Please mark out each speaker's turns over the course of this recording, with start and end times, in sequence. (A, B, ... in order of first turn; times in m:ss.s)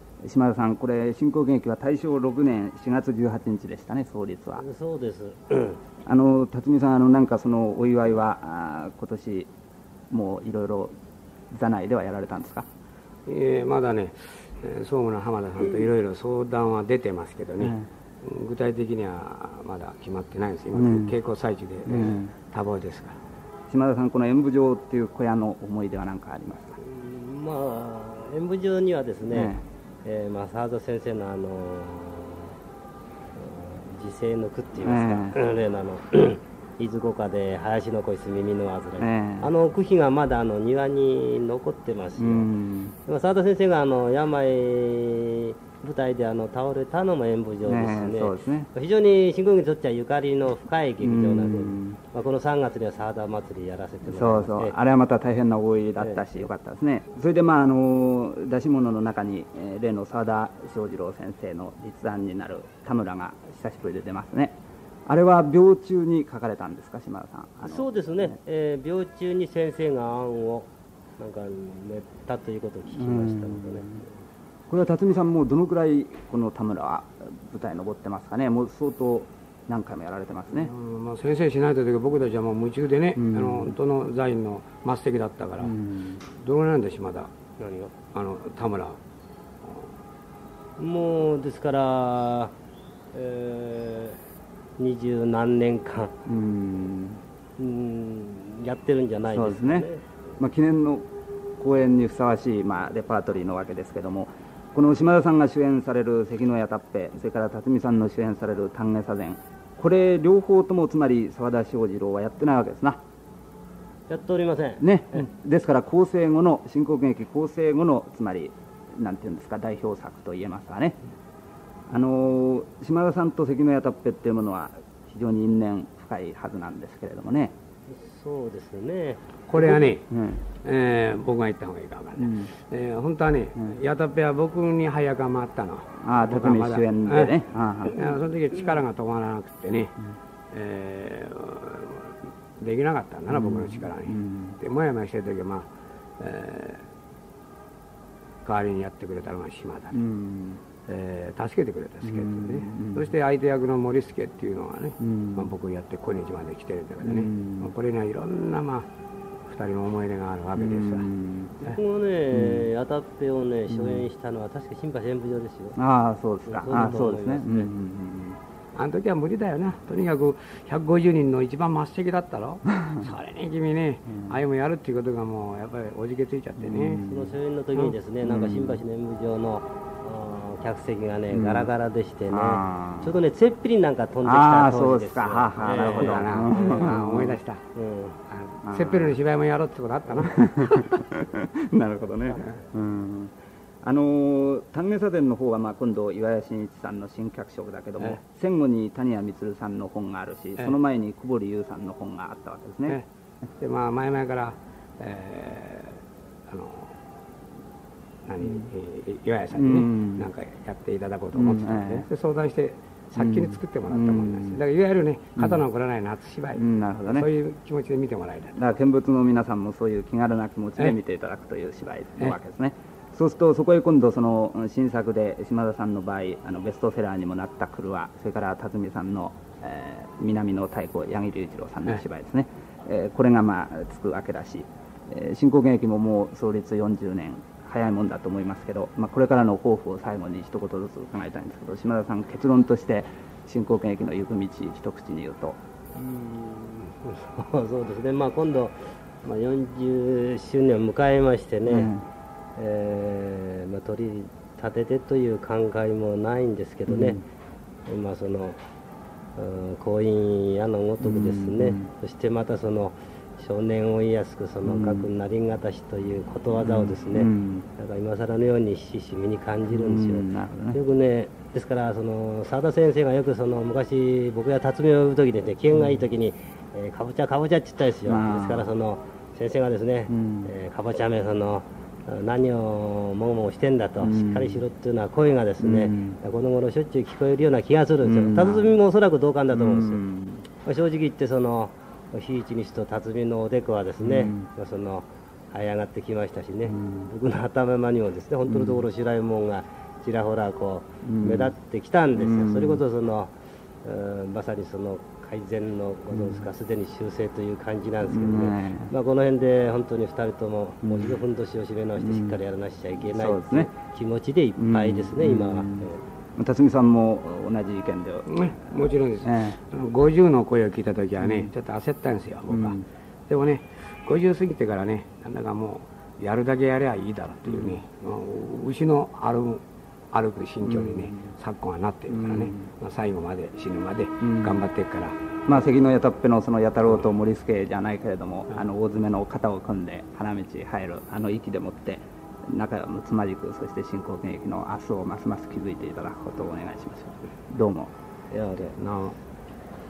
0:00.2-0:04.7 A
0:04.6-0:05.8 B
0:06.0-0:09.5 A
0:10.1-0:11.0 A
0:11.5-0:12.7 A
0:13.3-0:23.2 C
0:17.6-0:17.9 A
0:20.7-0:21.2 A
0:21.9-0:22.3 A
0:23.7-0:26.8 A
0:26.8-0:32.6 B
0:29.3-0:29.6 A
0:33.4-0:42.5 B
0:34.8-0:35.4 A
0:39.0-0:39.5 A
0:42.2-0:43.0 A
0:43.1-0:54.8 B
0:47.7-0:48.7 A
0:51.0-0:52.0 A
0:54.1-1:08.4 A
0:56.0-0:56.4 B
1:07.6-1:14.1 B
1:12.9-1:14.0 A
1:14.7-1:20.7 A
1:20.6-1:27.3 C
1:23.2-1:23.7 A
1:25.6-1:26.2 A
1:27.6-1:28.0 B
1:28.1-1:29.0 C
1:30.8-1:32.5 B
1:33.1-1:34.2 B
1:34.8-1:36.1 B
1:36.3-1:37.2 A
1:37.6-1:40.0 B
1:39.3-1:39.9 A
1:40.4-1:41.1 A
1:41.6-1:53.0 A
1:54.1-1:55.2 B
1:54.8-2:01.0 A
2:01.9-2:07.5 A
2:07.9-2:09.3 B
2:09.5-2:20.0 C
2:09.6-2:10.4 A
2:12.2-2:12.5 A
2:16.0-2:18.0 A
2:20.5-2:25.7 C
2:23.3-2:24.6 A
2:26.2-2:26.9 C
2:28.4-2:30.0 C
2:29.9-2:30.6 A
2:30.9-2:38.9 C
2:32.0-2:33.1 A
2:35.0-2:35.5 A
2:37.0-2:37.7 A
2:39.5-2:41.1 C
2:40.6-2:41.5 A
2:41.6-2:45.8 B
2:42.3-2:42.7 A
2:43.7-2:44.1 A
2:45.8-2:48.4 A
2:46.5-2:47.7 B
2:48.8-2:57.0 C
2:56.6-2:57.4 A
2:57.0-3:07.0 B
2:58.2-2:58.8 A
3:01.3-3:01.7 A
3:02.3-3:03.2 A
3:04.2-3:07.4 A
3:05.6-3:07.6 C
3:07.8-3:08.2 B
3:08.3-3:11.0 C
3:08.6-3:09.2 A
3:10.2-3:13.3 A
3:12.3-3:12.6 B
3:13.8-3:23.0 A
3:23.6-3:27.0 C
3:28.3-3:38.6 C
3:29.5-3:30.3 A
3:31.3-3:32.1 A
3:33.2-3:34.6 A
3:35.4-3:35.6 A
3:36.6-3:37.3 A
3:38.6-4:05.6 A
4:06.0-4:11.9 B
4:11.7-4:12.0 A
4:12.6-4:17.2 B
4:16.9-4:17.2 A
4:17.9-4:18.6 B
4:19.4-4:50.0 B
4:21.0-4:21.9 A
4:24.6-4:25.1 A
4:26.6-4:27.7 A
4:29.7-4:30.8 A
4:35.7-4:36.0 A
4:38.0-4:38.7 A
4:40.1-4:40.5 A
4:44.0-4:44.6 A
4:45.6-4:46.2 A
4:48.0-4:48.8 A
4:49.5-4:50.5 A
4:50.6-5:16.0 B
4:54.0-4:54.5 A
4:56.7-4:57.1 A
4:58.5-4:58.8 A
5:01.0-5:01.5 A
5:02.2-5:02.8 A
5:06.1-5:06.5 A
5:08.1-5:08.9 A
5:10.8-5:11.2 A
5:12.0-5:12.4 A
5:13.1-5:13.7 A
5:14.6-5:19.6 A
5:18.3-5:35.2 C
5:21.2-5:21.5 A
5:22.5-5:22.8 A
5:27.5-5:27.8 A
5:30.6-5:31.3 A
5:32.1-5:32.7 A
5:34.2-5:34.6 A
5:35.5-5:47.9 A
5:48.3-5:48.8 B
5:48.8-5:49.2 C